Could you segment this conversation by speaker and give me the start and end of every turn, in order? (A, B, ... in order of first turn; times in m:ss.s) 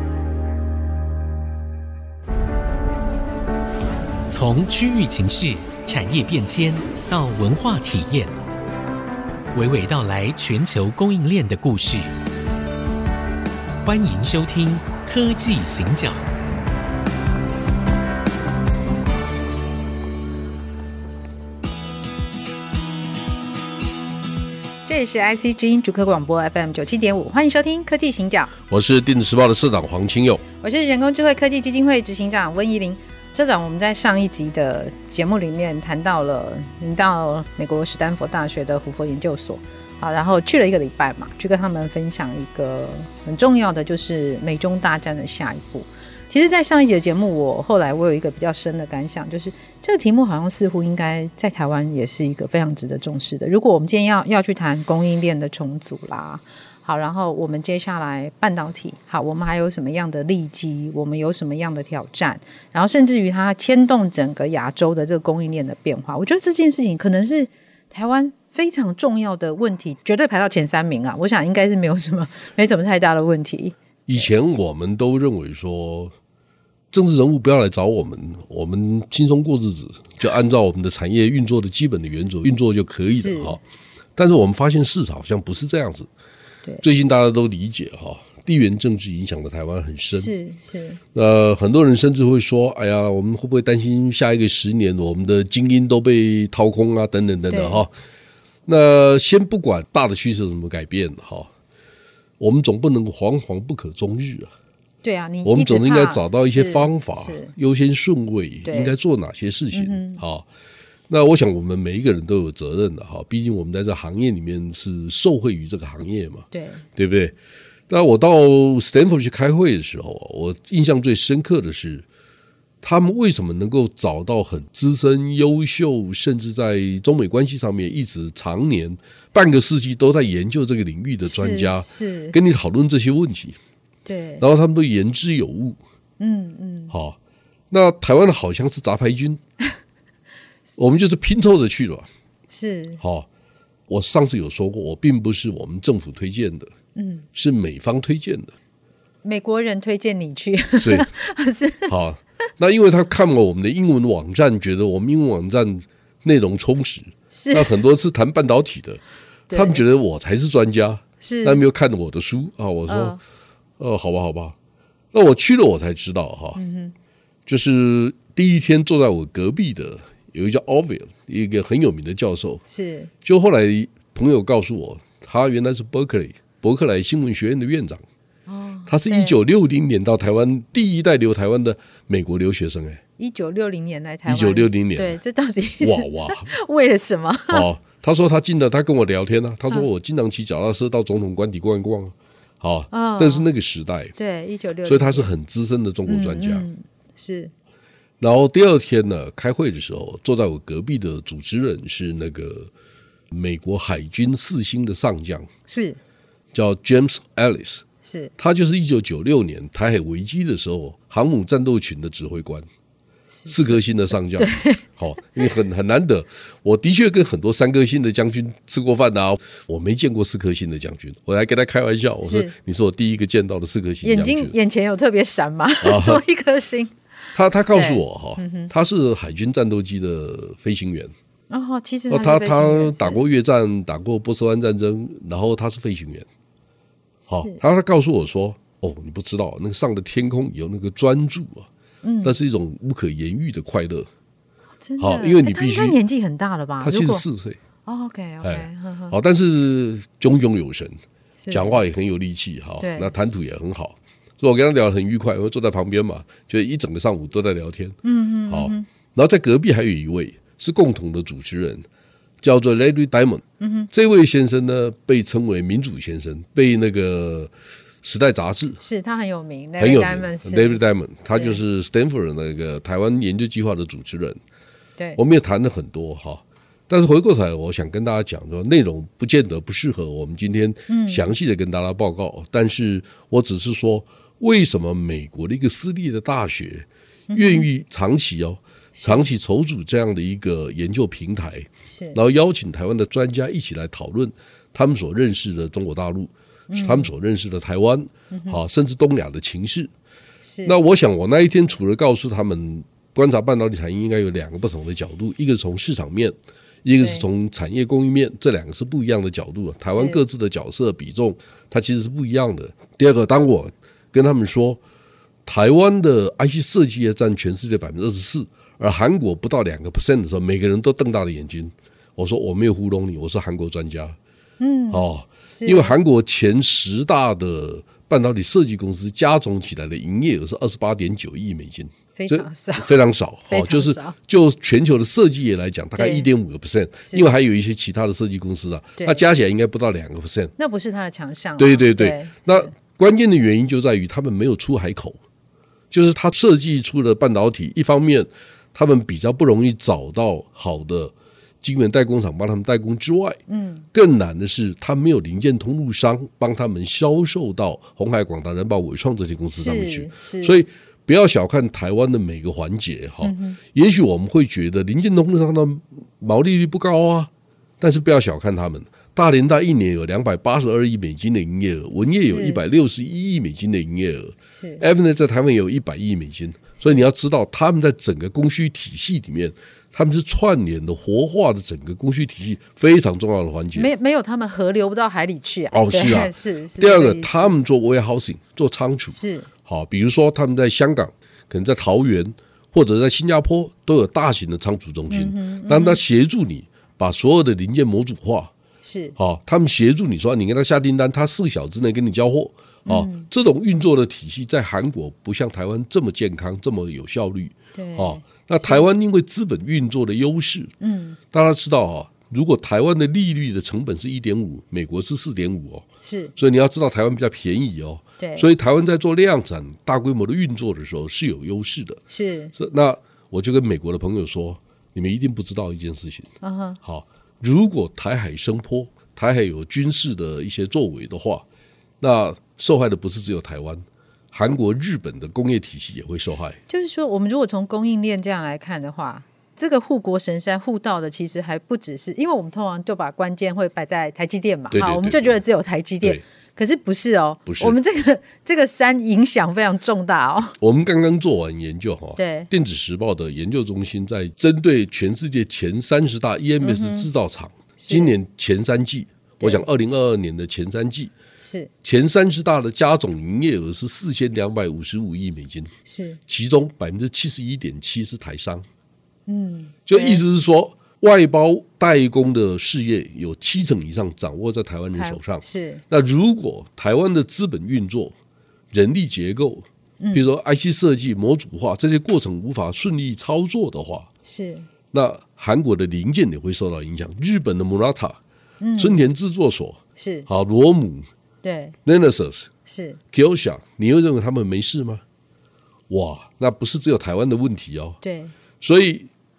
0:04.3-0:08.3 A
0:09.5-0:12.1 A
0:13.8-0:16.2 A
0:24.8-0:28.5 B
0:28.7-0:30.4 C
0:30.6-1:14.3 B
1:14.1-1:16.1 C
1:16.9-1:23.6 C
1:23.0-1:23.6 B
1:24.2-1:26.1 C
1:26.8-1:30.3 C
1:30.1-1:31.0 B
1:31.1-1:37.9 C
1:37.5-1:37.8 B
1:38.6-1:41.5 C
1:42.4-1:44.5 C
1:45.0-1:47.5 B
1:45.4-1:50.4 C
1:48.6-1:48.9 B
1:49.7-1:50.2 B
1:51.1-1:57.4 C
1:56.5-1:56.8 B
1:57.9-2:02.0 C
2:02.8-2:13.6 C
2:11.2-2:12.4 B
2:14.0-2:14.4 B
2:14.4-2:15.8 C
2:16.2-2:16.9 B
2:16.9-2:17.2 C
2:17.7-2:19.4 C
2:20.8-2:22.1 C
2:22.5-2:23.0 B
2:23.0-2:23.3 C
2:23.9-2:26.7 C
2:27.0-2:27.2 B
2:27.3-2:28.5 C
2:29.2-2:31.9 B
2:30.8-2:31.1 C
2:31.9-2:43.2 C
2:37.3-2:37.7 B
2:39.5-2:39.8 B
2:41.2-2:41.6 B
2:42.9-2:43.2 B
2:43.8-2:44.6 C
2:45.1-2:46.6 C
2:46.6-2:46.9 B
2:47.4-2:52.6 C
2:52.7-2:53.1 B
2:53.2-2:58.0 C
2:58.5-2:59.4 B
2:58.9-3:03.0 C
3:03.2-3:07.7 B
3:04.2-3:05.2 C
3:05.8-3:06.5 C
3:07.5-3:14.2 C
3:12.9-3:13.5 B
3:14.2-3:15.3 B
3:14.8-3:16.7 C
3:16.1-3:17.5 B
3:18.2-3:22.7 C
3:23.3-3:25.5 C
3:25.7-3:26.0 B
3:26.5-3:27.8 C
3:28.0-3:28.3 B
3:28.4-3:32.7 C
3:33.4-3:33.8 B
3:33.5-3:44.6 C
3:34.4-3:34.8 B
3:42.2-3:42.5 B
3:44.0-3:46.9 B
3:45.8-3:46.2 C
3:47.3-3:51.1 C
3:47.7-3:48.7 B
3:51.5-3:53.2 B
3:52.1-3:56.2 C
3:57.2-3:57.6 B
3:57.3-4:01.7 C
4:02.0-4:02.4 B
4:02.2-4:04.1 C
4:04.8-4:07.2 B
4:05.0-4:06.0 C
4:06.8-4:07.6 C
4:07.8-4:09.2 B
4:08.4-4:11.0 C
4:11.4-4:11.8 B
4:11.5-4:21.8 C
4:12.8-4:13.1 B
4:18.0-4:18.9 B
4:22.4-4:27.5 C
4:23.6-4:23.9 B
4:28.0-4:28.8 C
4:28.8-4:31.6 B
4:29.8-4:34.4 C
4:35.2-4:59.9 C
4:40.9-4:41.3 B
4:47.3-4:47.6 B
4:49.0-4:49.2 B
4:51.9-4:52.2 B
4:56.7-4:57.1 B
4:58.3-4:58.6 B
5:00.4-5:00.7 B
5:00.6-5:14.8 C
5:07.0-5:07.2 B
5:09.9-5:10.2 B
5:15.4-5:24.2 C
5:24.6-5:25.9 B
5:24.9-5:40.5 C
5:32.2-5:32.9 B
5:33.5-5:34.2 B
5:36.0-5:36.3 B
5:37.0-5:37.3 B
5:39.0-5:39.2 B
5:40.6-5:42.7 B
5:41.6-5:45.2 C
5:45.9-5:53.4 C
5:53.5-5:53.8 B
5:53.9-6:23.9 C
5:59.5-6:00.6 B
6:03.2-6:03.6 B
6:12.1-6:12.6 B
6:14.6-6:14.8 B
6:23.7-6:27.5 B
6:25.7-6:38.5 C
6:29.1-6:29.5 B
6:35.1-6:36.0 B
6:38.8-6:39.1 B
6:39.2-6:50.7 C
6:42.8-6:43.3 B
6:47.7-6:48.9 B
6:50.8-6:51.2 B
6:51.3-6:55.8 C
6:56.0-6:56.3 B
6:56.4-7:02.0 C
6:58.2-6:58.5 B
7:02.1-7:02.5 B
7:02.5-7:06.3 C
7:06.4-7:06.8 B
7:06.8-7:11.4 C
7:12.0-7:16.6 C
7:16.7-7:30.6 B
7:24.7-7:25.4 C
7:27.5-7:27.8 C
7:30.6-7:41.1 C
7:32.2-7:32.5 B
7:36.6-7:37.1 B
7:37.8-7:38.1 B
7:39.4-7:39.6 B
7:41.4-7:41.7 B
7:41.8-7:45.7 C
7:45.9-7:46.2 B
7:46.3-7:48.6 C
7:49.3-7:50.2 B
7:49.9-7:58.1 C
7:54.9-7:55.8 B
7:58.7-8:04.1 C
8:00.0-8:00.2 B
8:04.2-8:04.7 B
8:04.9-8:08.2 C
8:08.6-8:09.0 B
8:08.8-8:11.1 C
8:10.0-8:10.3 B
8:11.4-8:11.8 B
8:11.8-8:12.5 C
8:12.6-8:13.0 B
8:13.1-8:15.0 C
8:15.9-8:18.0 C
8:18.0-8:18.3 B
8:18.6-8:19.1 C